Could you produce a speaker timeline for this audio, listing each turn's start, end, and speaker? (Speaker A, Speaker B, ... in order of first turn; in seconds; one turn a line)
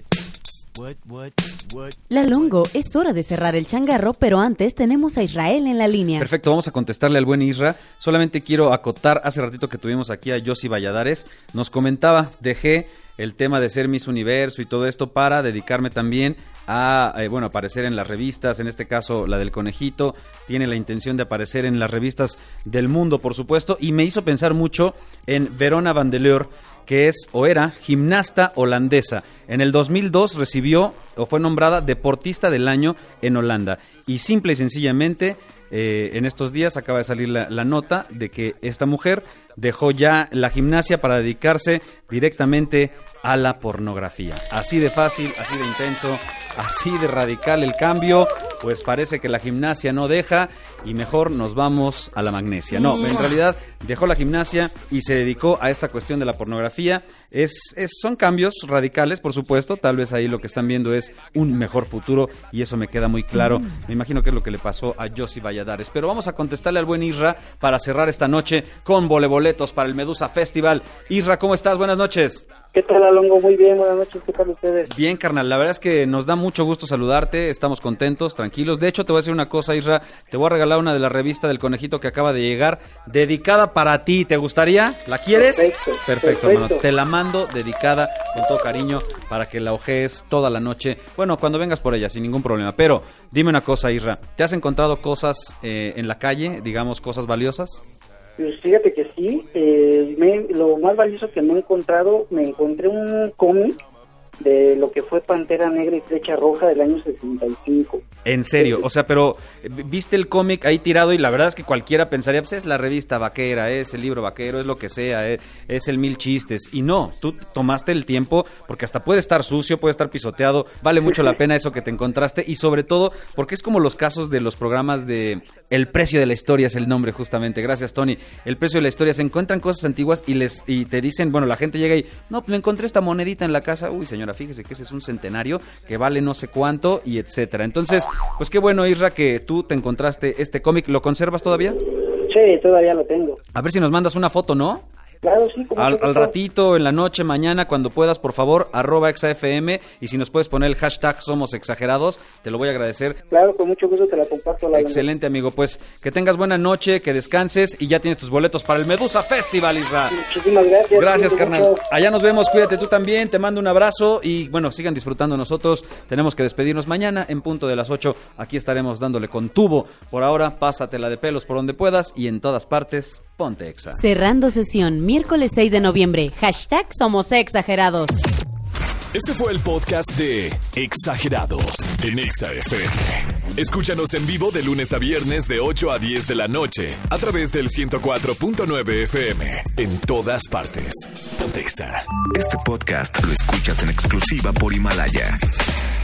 Speaker A: 2.1-6.3
Speaker B: 6.2-72.5
Speaker C: 72.7-74.9
Speaker B: 74.9-97.8
Speaker C: 85.3-86.8
Speaker C: 98.4-103.8
Speaker C: 104.4-108.0
Speaker B: 108.2-141.8
Speaker C: 108.5-108.9
Speaker C: 142.2-143.4
Speaker B: 143.5-144.9
Speaker C: 145.2-146.3
Speaker B: 145.8-153.2
Speaker C: 153.3-155.1
Speaker B: 154.7-160.2
Speaker C: 160.1-161.8
Speaker B: 160.9-174.0
Speaker A: 173.9-178.2
Speaker D: 179.1-192.2
Speaker E: 192.3-195.4